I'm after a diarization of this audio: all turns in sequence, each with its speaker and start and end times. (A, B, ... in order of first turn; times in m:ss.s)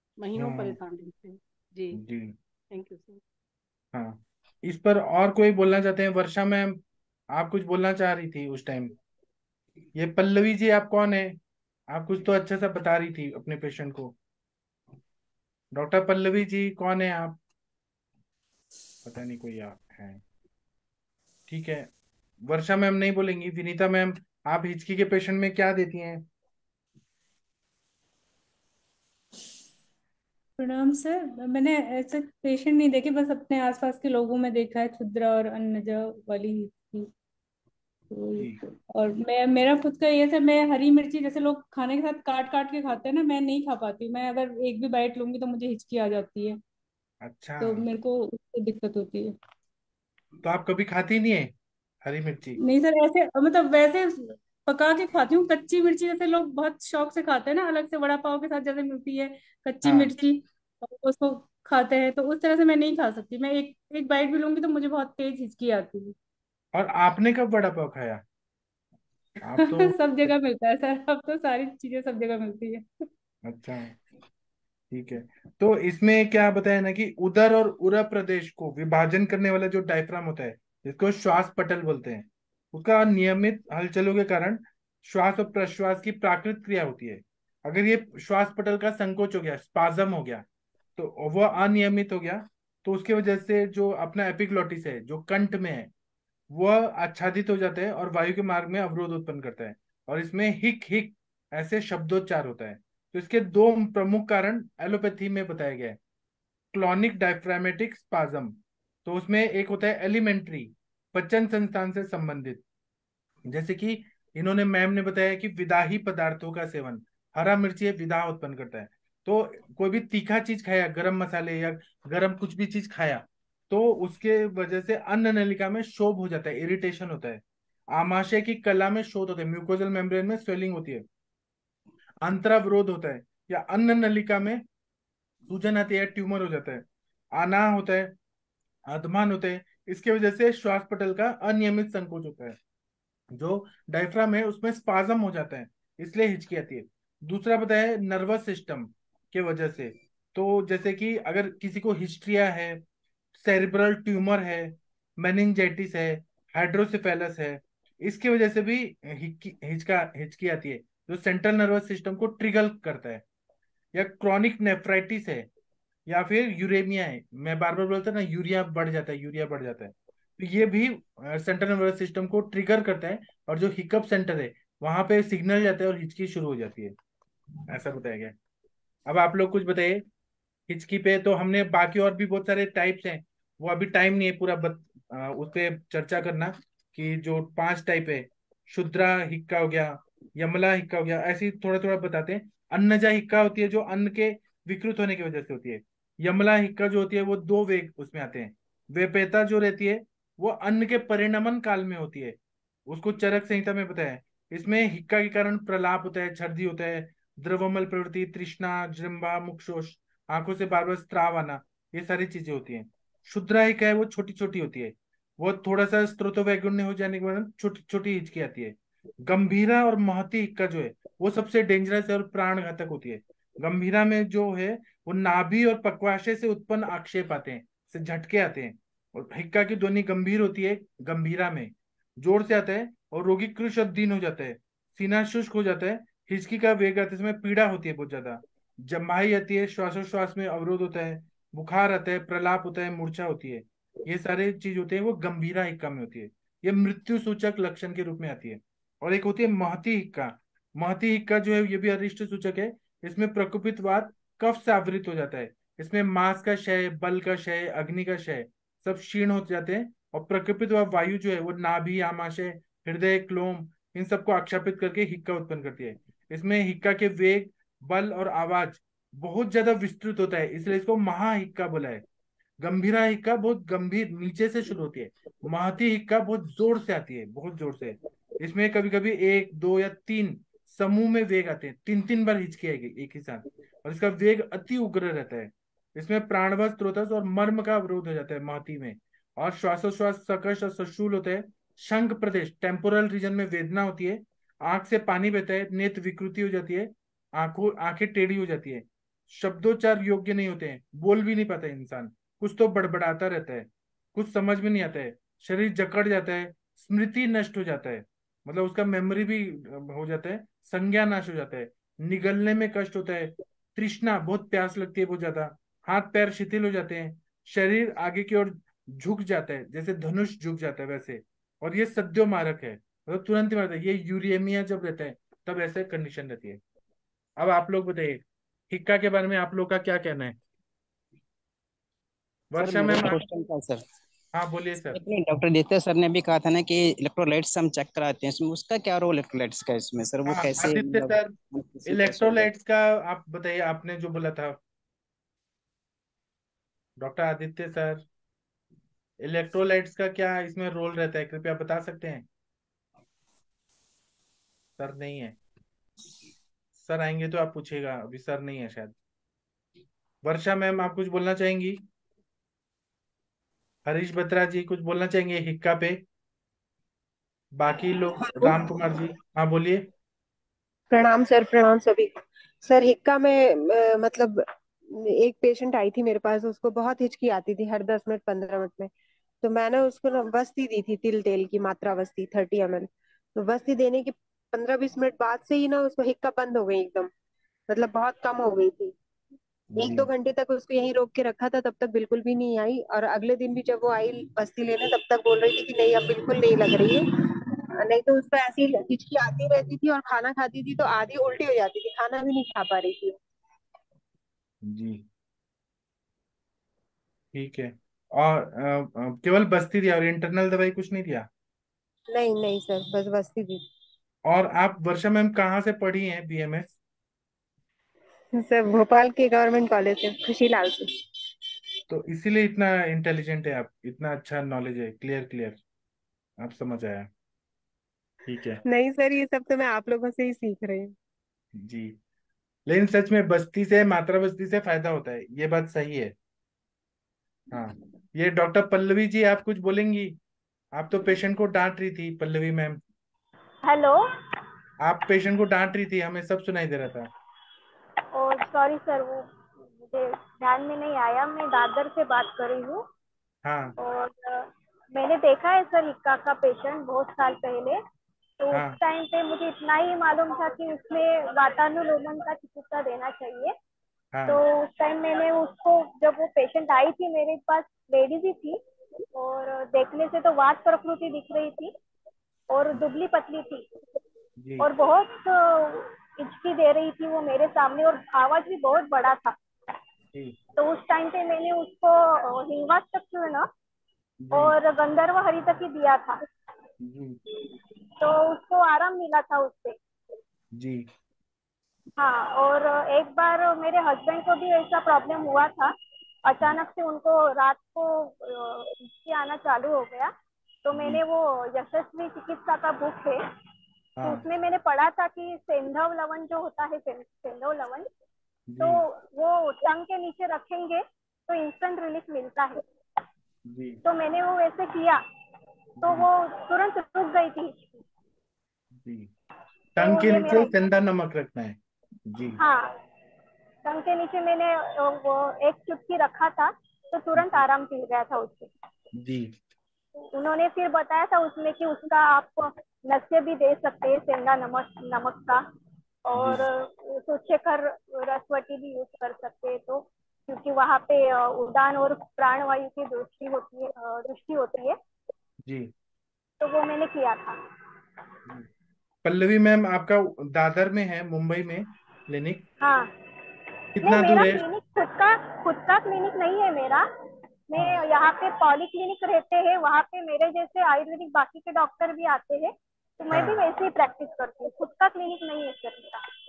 0:00.2-0:02.0 A
0:00.4-0:00.8 B
0:01.9-0:02.3 B
0:02.7-0:03.2 A
0:03.9-0:06.8 B
0:07.4-0:09.0 B
0:10.0-0:11.4 B
0:11.9-0:14.1 B
0:15.8-0:17.4 B
0:19.0-0:20.2 B
0:21.5-0:21.9 B
0:22.5-0:26.2 B
0:30.6-0:37.1 C
0:38.1-0:46.6 C
0:47.2-0:47.9 B
0:47.6-0:49.4 C
0:50.4-0:51.5 B
0:52.0-0:52.6 B
0:52.6-1:06.2 C
0:59.8-1:00.1 B
1:06.7-1:08.2 B
1:09.4-1:10.0 B
1:09.6-1:12.9 C
1:13.5-1:14.0 B
1:14.9-1:30.4 B
1:31.0-1:35.9 B
1:36.5-1:46.0 B
1:46.7-1:52.6 B
1:53.5-2:07.4 B
2:07.9-2:11.0 B
2:12.2-2:14.6 B
2:15.5-2:16.8 B
2:17.4-2:18.1 B
2:18.9-2:22.6 B
2:23.3-2:32.8 B
2:33.4-2:43.2 B
2:43.9-2:45.5 B
2:46.1-2:57.0 B
2:57.7-2:58.4 B
2:59.1-3:00.0 B
3:00.7-3:22.4 B
3:22.9-4:32.0 B
4:32.6-5:26.6 B
5:27.4-5:30.4 B
5:32.5-5:33.2 B
5:32.6-5:33.8 D
5:34.4-5:35.0 B
5:34.9-5:42.5 D
5:40.3-5:41.4 B
5:41.9-5:44.6 B
5:47.0-5:48.0 B
5:49.2-5:52.2 B
5:54.8-5:55.4 B
5:56.8-5:59.0 B
6:00.2-6:01.8 B
6:03.9-6:06.0 B
6:07.6-6:09.8 B
6:08.3-6:08.6 E
6:10.9-6:12.1 E
6:12.6-6:14.4 E
6:14.9-6:18.9 E
6:19.4-6:27.1 E
6:27.7-6:28.9 E
6:29.8-6:30.1 B
6:29.8-6:43.2 E
6:44.6-6:45.0 B
6:47.3-6:51.3 B
6:52.1-6:53.6 E
6:54.3-6:56.7 B
6:58.4-7:00.9 E
7:01.9-7:05.6 B
7:06.4-7:07.1 B
7:08.3-7:08.6 B
7:08.7-7:10.9 E
7:11.6-7:11.9 B
7:12.7-7:16.1 B
7:17.5-7:20.2 B
7:20.8-7:22.8 B
7:23.6-7:24.0 F
7:24.8-7:27.1 B
7:28.1-7:32.8 F
7:33.4-7:33.8 B
7:33.8-7:37.8 F
7:38.4-7:43.6 F
7:44.1-7:44.4 B
7:44.3-7:48.6 F
7:49.2-7:51.7 F
7:52.5-7:53.7 F
7:54.4-7:54.7 B
7:54.6-7:59.4 F
8:00.1-8:00.4 B
8:00.6-8:03.5 F
8:04.2-8:04.5 B
8:04.3-8:06.2 F
8:06.8-8:07.2 B
8:08.0-8:09.8 F
8:10.6-8:10.9 B
8:12.0-8:15.7 F
8:16.3-8:20.1 F
8:20.6-8:23.2 F
8:20.8-8:21.0 B
8:24.0-8:24.2 B
8:24.0-8:27.9 F
8:28.5-8:28.8 B
8:28.6-8:32.6 F
8:33.5-8:33.8 B
8:33.8-8:35.0 F
8:35.8-8:36.1 B
8:35.8-8:37.8 F
8:38.8-8:39.1 B
8:39.8-8:41.6 B
8:39.8-8:40.5 F
8:42.1-8:42.4 B
8:42.4-8:42.7 F
8:43.6-8:48.5 F
8:47.2-8:47.4 B
8:49.0-8:49.3 B
8:50.0-8:55.4 F
8:56.1-9:04.8 F
8:56.2-8:56.5 B
9:06.4-9:07.4 F
9:09.0-9:12.4 B
9:12.6-9:12.9 F
9:13.8-9:14.4 B
9:13.8-9:16.8 F
9:17.5-9:26.0 F
9:23.1-9:23.4 B